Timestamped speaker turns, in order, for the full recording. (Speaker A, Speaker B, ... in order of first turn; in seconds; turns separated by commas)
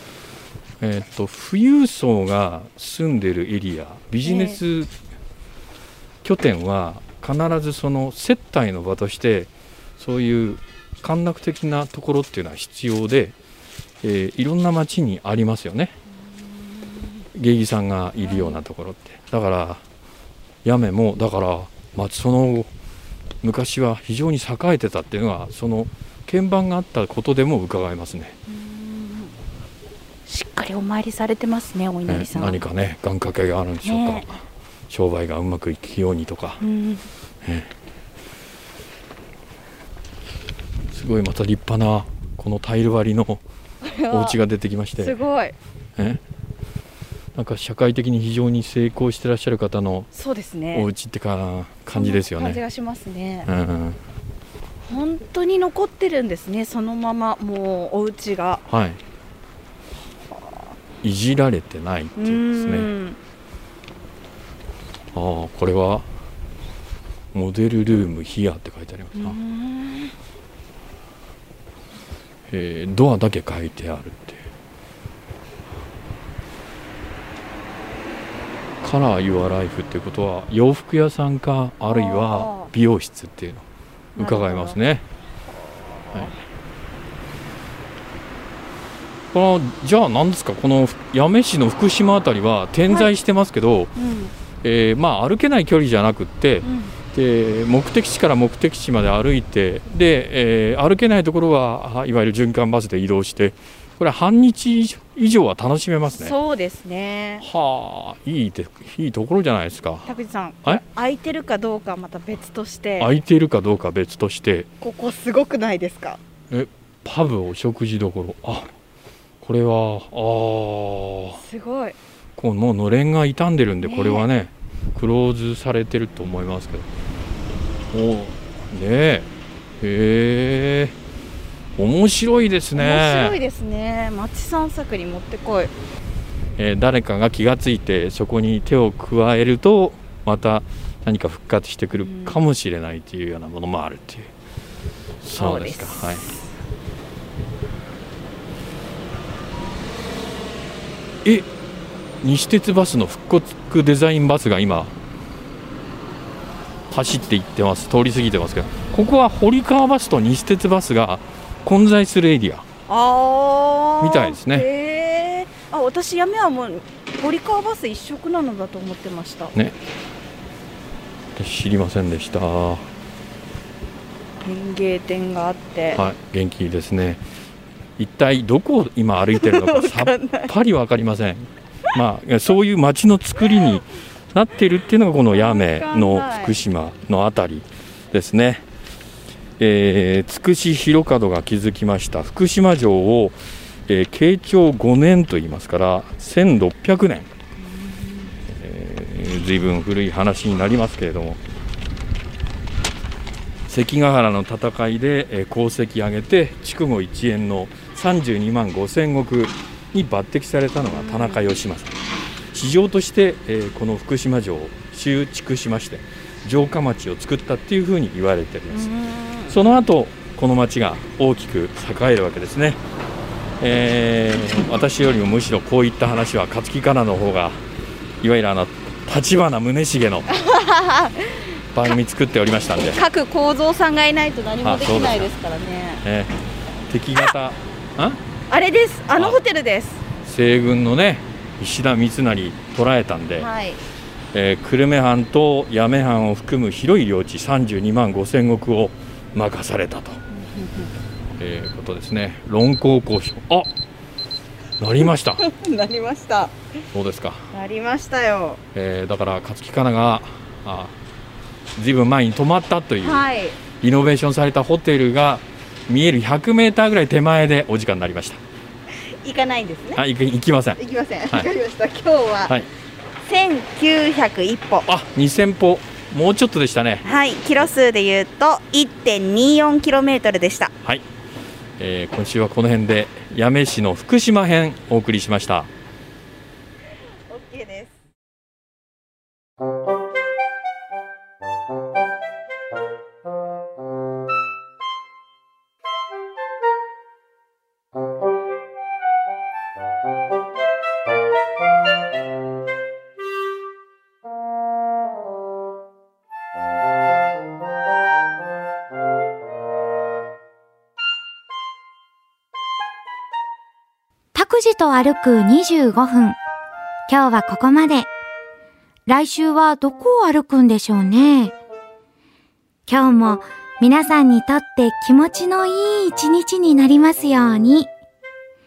Speaker A: 0.8-4.9, Speaker B: 4.2-4.6, Speaker A: 6.2-13.3, Speaker A: 14.0-15.9, Speaker A: 17.3-19.8, Speaker B: 18.2-18.6, Speaker A: 20.6-22.7, Speaker A: 23.4-28.4, Speaker B: 28.5-29.3, Speaker B: 30.3-32.6, Speaker A: 32.1-36.6, Speaker B: 33.8-34.3, Speaker B: 36.6-37.1, Speaker A: 37.4-37.7, Speaker A: 40.9-43.4, Speaker B: 43.8-44.4, Speaker A: 44.1-45.2, Speaker B: 45.0-45.6, Speaker A: 46.0-46.2, Speaker A: 47.4-50.1, Speaker B: 50.1-50.9, Speaker A: 50.7-52.6, Speaker B: 51.9-53.5, Speaker A: 53.5-54.0, Speaker B: 54.9-58.7, Speaker A: 58.7-59.0, Speaker A: 61.0-62.9, Speaker B: 62.2-63.2, Speaker A: 65.1-66.1, Speaker A: 67.3-69.4, Speaker B: 69.2-70.1, Speaker A: 72.5-74.5, Speaker A: 78.8-83.7, Speaker B: 81.9-82.7, Speaker B: 84.2-84.8, Speaker A: 84.2-85.0, Speaker B: 85.5-86.4, Speaker A: 89.3-93.9, Speaker B: 94.0-94.3, Speaker A: 94.6-106.3, Speaker B: 96.6-97.0, Speaker B: 106.1-107.5, Speaker A: 107.4-110.1, Speaker B: 110.1-113.1, Speaker A: 113.0-114.7, Speaker B: 114.8-116.2, Speaker A: 116.5-118.7, Speaker A: 119.4-121.4, Speaker B: 121.4-122.0, Speaker A: 122.4-126.9, Speaker B: 123.8-124.3, Speaker A: 127.9-129.3, Speaker A: 129.8-131.0, Speaker A: 131.8-133.4, Speaker B: 132.8-135.7, Speaker A: 136.6-144.3, Speaker B: 141.9-142.4, Speaker A: 145.2-146.4, Speaker B: 145.3-146.4, Speaker A: 151.2-151.5, Speaker A: 152.2-154.9, Speaker A: 156.9-162.7, Speaker B: 162.9-169.6, Speaker A: 164.0-164.7, Speaker A: 171.3-172.9, Speaker B: 174.4-176.1, Speaker A: 175.9-177.2, Speaker A: 178.0-188.7, Speaker B: 179.3-180.5, Speaker B: 185.3-186.6, Speaker A: 189.6-197.3, Speaker B: 197.7-198.4, Speaker A: 198.5-201.4, Speaker A: 203.7-212.0, Speaker B: 210.8-211.5, Speaker A: 212.5-218.9, Speaker B: 218.7-219.6, Speaker A: 219.5-222.8, Speaker A: 223.6-227.6, Speaker A: 228.2-230.3, Speaker B: 230.3-231.5, Speaker A: 231.7-233.0, Speaker B: 232.9-236.0, Speaker A: 234.6-235.3, Speaker A: 236.0-236.3, Speaker A: 236.9-238.2, Speaker B: 238.5-240.1, Speaker A: 240.2-243.5, Speaker B: 243.4-243.8, Speaker A: 244.3-250.2, Speaker B: 250.3-250.9, Speaker A: 251.4-253.7, Speaker A: 254.8-255.4, Speaker B: 255.0-256.6, Speaker A: 256.9-257.5, Speaker B: 257.5-258.6, Speaker A: 258.7-260.9, Speaker A: 261.8-263.2, Speaker B: 263.0-263.6, Speaker A: 263.8-268.4, Speaker B: 269.0-270.0, Speaker A: 270.0-271.5, Speaker B: 270.8-272.6, Speaker B: 273.2-274.9, Speaker A: 274.9-277.1, Speaker B: 277.0-280.7, Speaker A: 281.8-285.7, Speaker B: 287.3-287.9, Speaker C: 314.4-316.4, Speaker C: 317.1-318.1, Speaker C: 319.1-321.6, Speaker C: 322.9-327.9